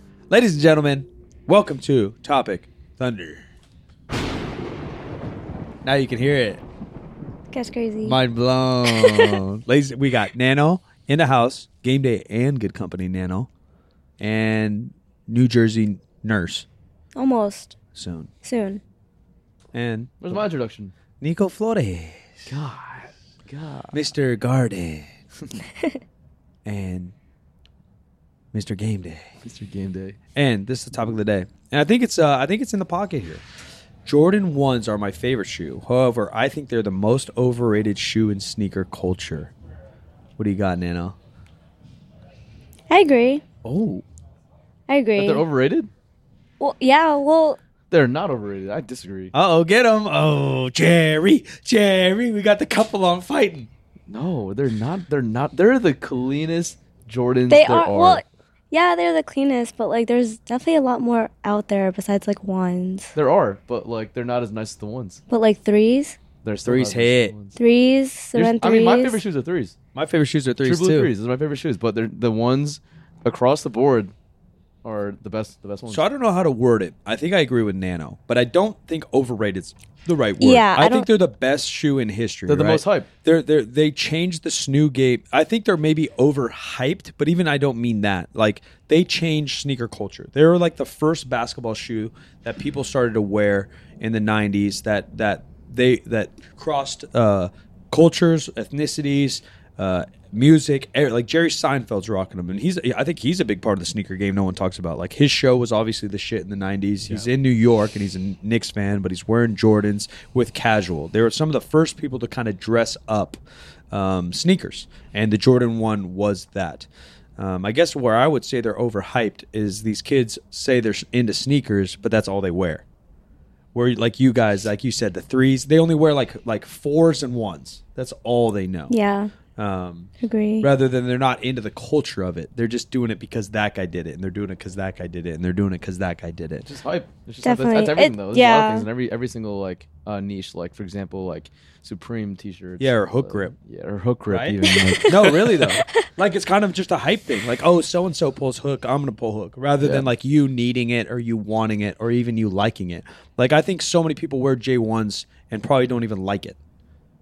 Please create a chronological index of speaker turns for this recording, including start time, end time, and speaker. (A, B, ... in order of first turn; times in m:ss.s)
0:00.3-0:03.4 A
0:05.8-0:06.6 A
0:07.5-0:08.2 B
0:08.0-0:13.5 A
0:08.9-0:09.3 B
0:14.2-0:16.6 A
0:17.2-0:17.7 B
0:17.9-0:18.3 A
0:18.4-0:18.8 B
0:19.7-0:20.4 A
0:20.2-0:20.9 C
0:21.2-0:22.5 A
0:22.5-0:24.0 C
0:23.9-0:25.1 A
0:26.6-0:27.1 A
0:28.5-0:29.3 A
0:29.4-0:30.2 C
0:30.3-0:33.4 A
0:34.0-0:39.5 A
0:40.4-0:41.2 A
0:42.9-0:43.4 B
0:43.6-0:44.0 A
0:44.9-0:45.4 B
0:45.2-0:45.9 C
0:46.6-0:47.6 B
0:47.9-0:49.3 C
0:49.3-0:53.7 A
0:54.1-0:58.2 C
0:57.5-1:03.1 B
1:03.1-1:05.2 C
1:05.3-1:06.2 B
1:06.4-1:07.6 C
1:06.6-1:07.3 A
1:07.6-1:09.2 B
1:08.3-1:09.8 C
1:09.9-1:11.1 A
1:10.6-1:14.1 C
1:14.8-1:16.0 C
1:15.9-1:53.4 A
1:20.4-1:21.1 B
1:22.5-1:23.1 C
1:53.9-2:02.8 A
2:03.7-2:08.9 A
2:08.9-2:09.3 B
2:09.6-2:10.1 A
2:10.2-2:10.7 B
2:10.6-2:16.7 A
2:16.6-2:25.8 C
2:17.4-2:18.9 B
2:22.8-2:23.5 A
2:24.3-2:36.6 A
2:24.8-2:25.2 B
2:29.8-2:30.1 C